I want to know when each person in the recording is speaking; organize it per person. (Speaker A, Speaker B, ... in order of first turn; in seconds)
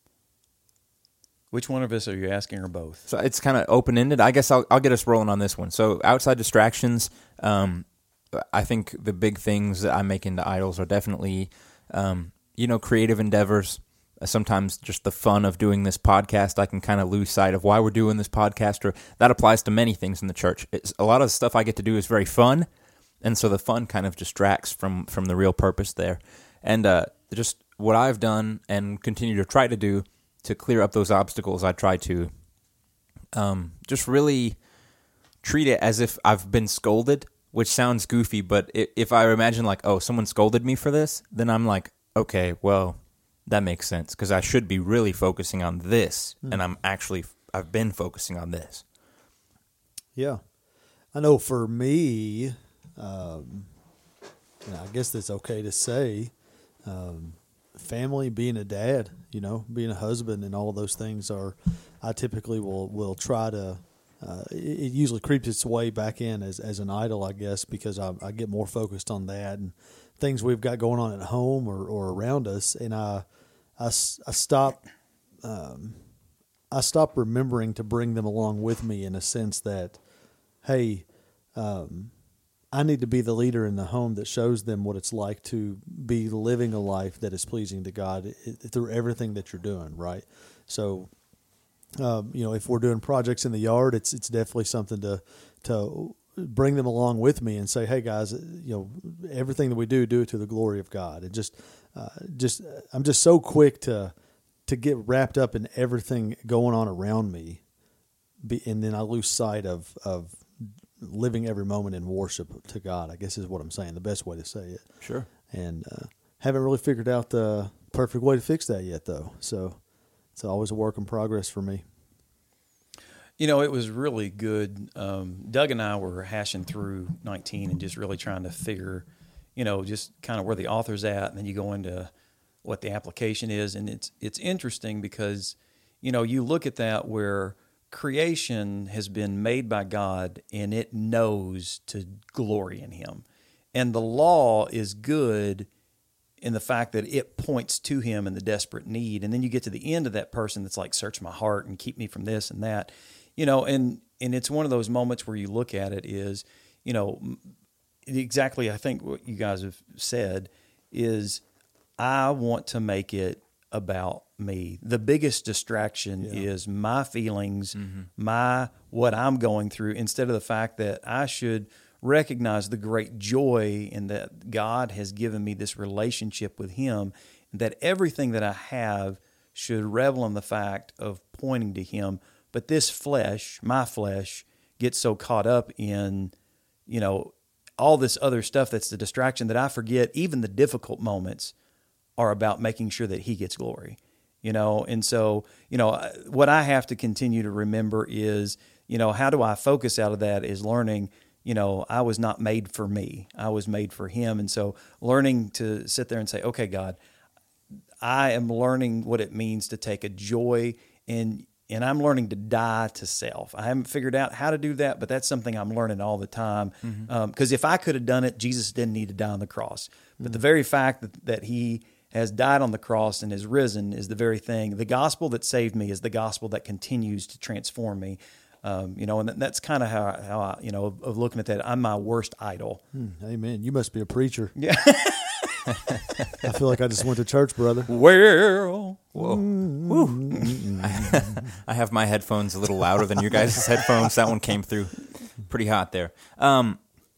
Speaker A: 1.5-3.1, 123.4-132.1, 132.6-145.7, 146.4-157.4, 158.1-161.4, 162.0-186.3, 186.9-191.5, 192.2-207.0, 208.0-232.8, 234.6-235.9, 237.9-239.1
Speaker B: 3.1-22.7, 23.2-32.3, 33.3-34.6, 35.4-48.8, 115.0-115.3, 167.8-168.1, 239.2-246.8
Speaker C: 50.2-50.4, 51.1-53.7, 54.6-56.3, 56.9-73.2, 73.8-74.8, 75.4-76.0, 76.7-80.0, 80.6-82.1, 82.7-91.1, 92.0-104.1, 104.7-107.6, 108.4-114.9, 115.5-119.8, 120.4-121.8, 166.2-166.5, 232.9-234.5, 236.4-237.9, 239.2-241.4